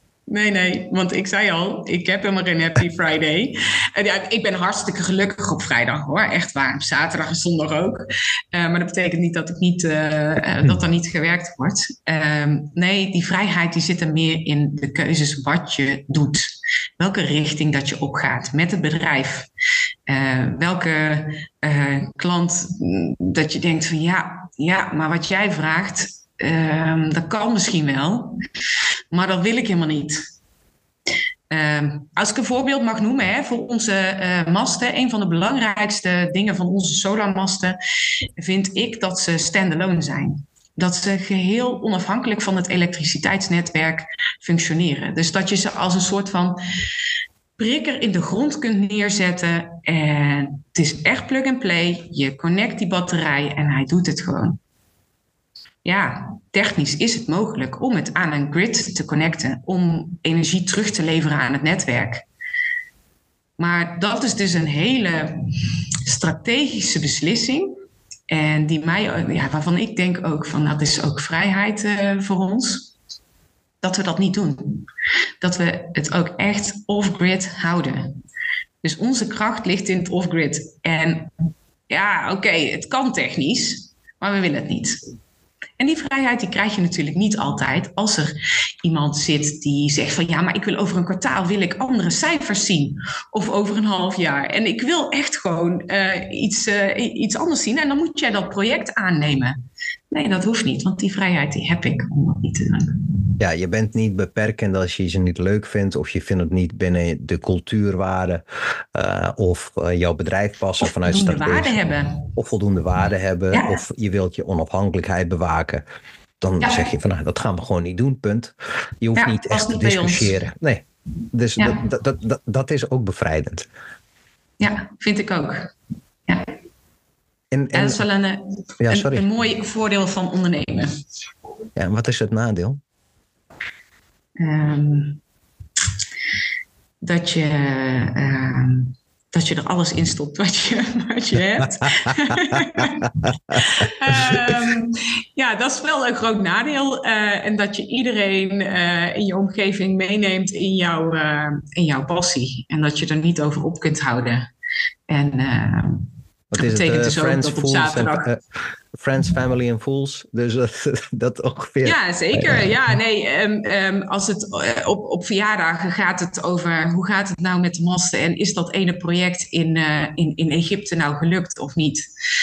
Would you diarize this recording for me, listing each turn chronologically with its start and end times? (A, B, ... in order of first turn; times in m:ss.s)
0:00.3-0:19.5 A
0:20.1-0:28.4 A
0:29.1-0:30.2 A
0:31.5-0:37.8 A
0:38.4-0:46.6 A
0:47.6-0:54.6 A
0:55.8-1:02.2 A
1:03.6-1:05.4 A
1:06.0-1:07.7 A
1:08.3-1:12.9 A
1:13.8-1:14.8 A
1:15.4-1:18.2 A
1:18.8-1:21.3 A
1:21.9-1:25.0 A
1:25.8-1:39.6 A
1:40.1-1:43.2 A
1:43.4-1:48.4 B
1:48.9-1:51.8 B
1:50.8-1:52.3 A
1:52.3-1:55.8 B
1:56.4-2:03.7 B
1:56.6-1:56.9 A
1:59.2-2:00.4 A
2:04.6-2:05.7 A
2:07.5-2:08.0 B
2:07.7-2:10.9 A
2:08.8-2:09.3 B
2:11.8-2:12.8 B
2:14.4-2:15.2 A
2:17.0-2:34.5 A
2:24.1-2:24.4 B
2:35.1-2:38.3 A
2:36.5-2:38.4 B
2:38.9-2:42.7 B
2:41.8-2:52.0 A